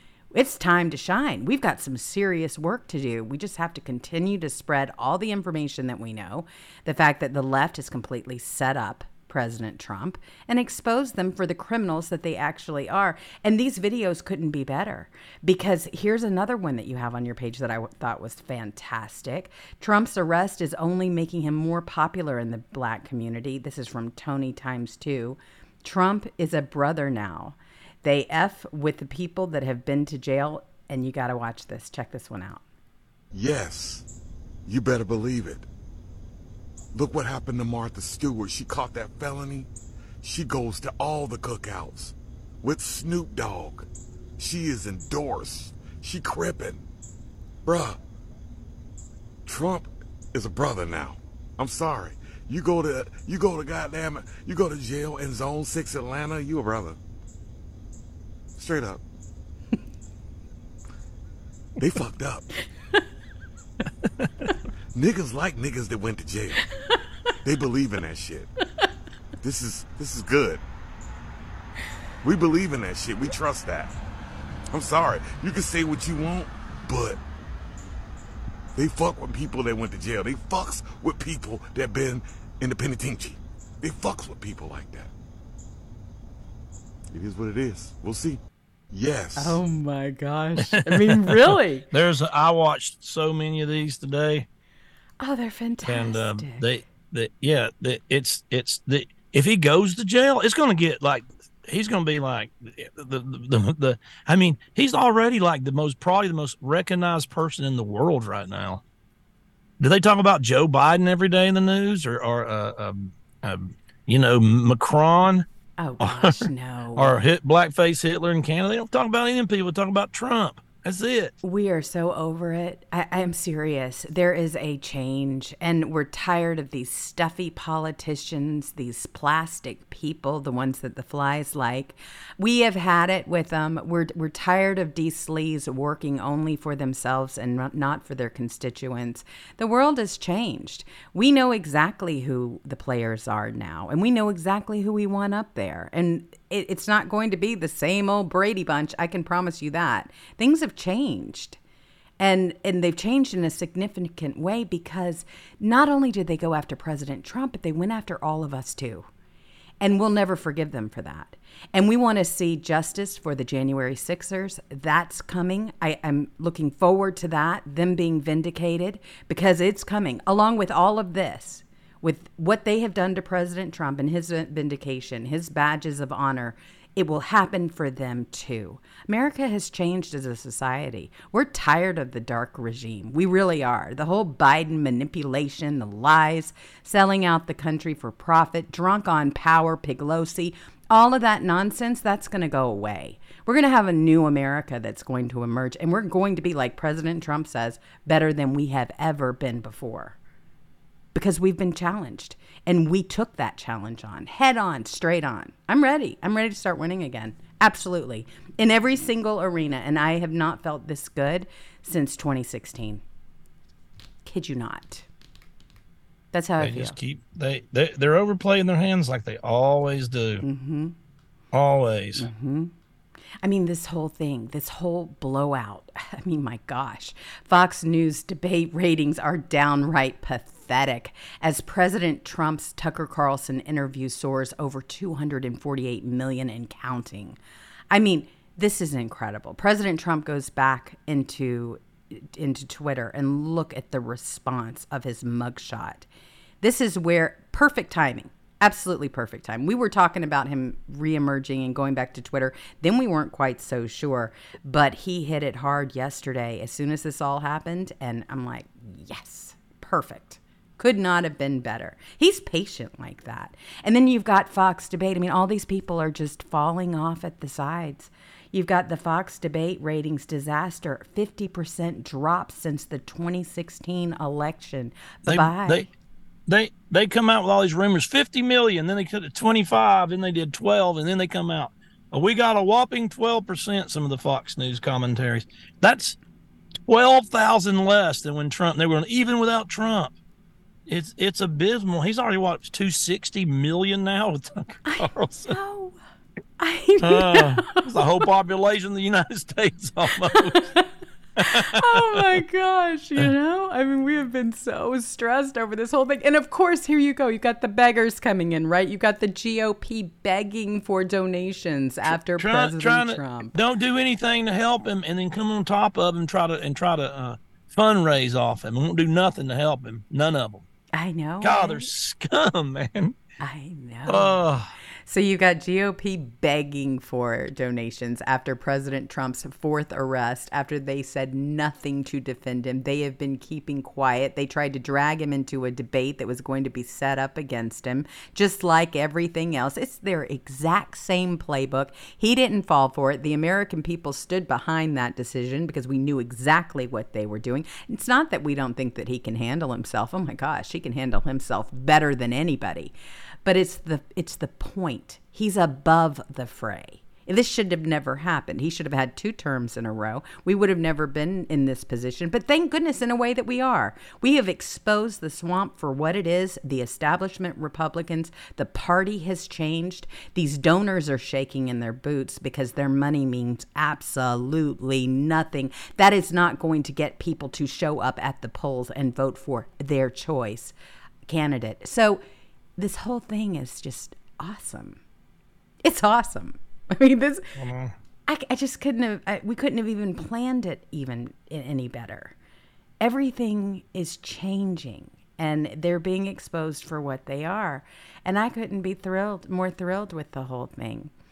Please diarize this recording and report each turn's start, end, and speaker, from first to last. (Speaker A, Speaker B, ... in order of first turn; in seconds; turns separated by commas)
Speaker A: 0.3-32.6, Speaker B: 33.3-34.0, Speaker B: 34.6-35.6, Speaker B: 36.9-39.7, Speaker B: 40.2-43.9, Speaker B: 44.4-46.8, Speaker B: 47.6-48.0, Speaker B: 49.5-57.0, Speaker B: 58.6-59.0, Speaker B: 61.8-62.5, Speaker B: 64.9-66.6, Speaker B: 67.4-68.5, Speaker B: 69.4-70.6, Speaker B: 72.2-73.9, Speaker B: 74.7-77.2, Speaker B: 78.7-85.1, Speaker B: 87.1-88.4, Speaker B: 88.9-89.6, Speaker A: 89.3-91.8, Speaker C: 90.5-94.5, Speaker A: 95.2-96.8, Speaker C: 95.8-108.8, Speaker C: 109.8-115.5, Speaker A: 115.8-117.2, Speaker C: 116.0-121.3, Speaker A: 121.4-151.6, Speaker A: 152.2-159.1, Speaker A: 159.8-200.2, Speaker A: 201.1-213.0, Speaker A: 214.2-215.1, Speaker A: 216.3-217.0, Speaker C: 216.6-220.4, Speaker A: 220.4-220.9, Speaker C: 221.5-222.3, Speaker A: 222.2-222.7, Speaker A: 223.4-237.4, Speaker A: 237.9-246.1, Speaker A: 246.6-275.9, Speaker C: 275.2-275.9, Speaker C: 276.5-286.2, Speaker C: 286.9-290.1, Speaker C: 290.9-295.6, Speaker A: 294.8-296.0, Speaker A: 296.6-298.2, Speaker C: 297.0-300.6, Speaker A: 300.3-300.9, Speaker C: 301.4-302.2, Speaker A: 301.4-313.6, Speaker C: 312.1-320.6, Speaker A: 320.9-321.9, Speaker C: 321.4-323.2, Speaker A: 323.4-324.4, Speaker C: 324.1-324.7, Speaker A: 325.1-352.9, Speaker A: 353.4-380.7, Speaker A: 381.3-382.2, Speaker A: 382.8-385.0, Speaker A: 385.8-387.5, Speaker C: 387.6-387.9, Speaker A: 388.3-392.3, Speaker A: 393.0-401.1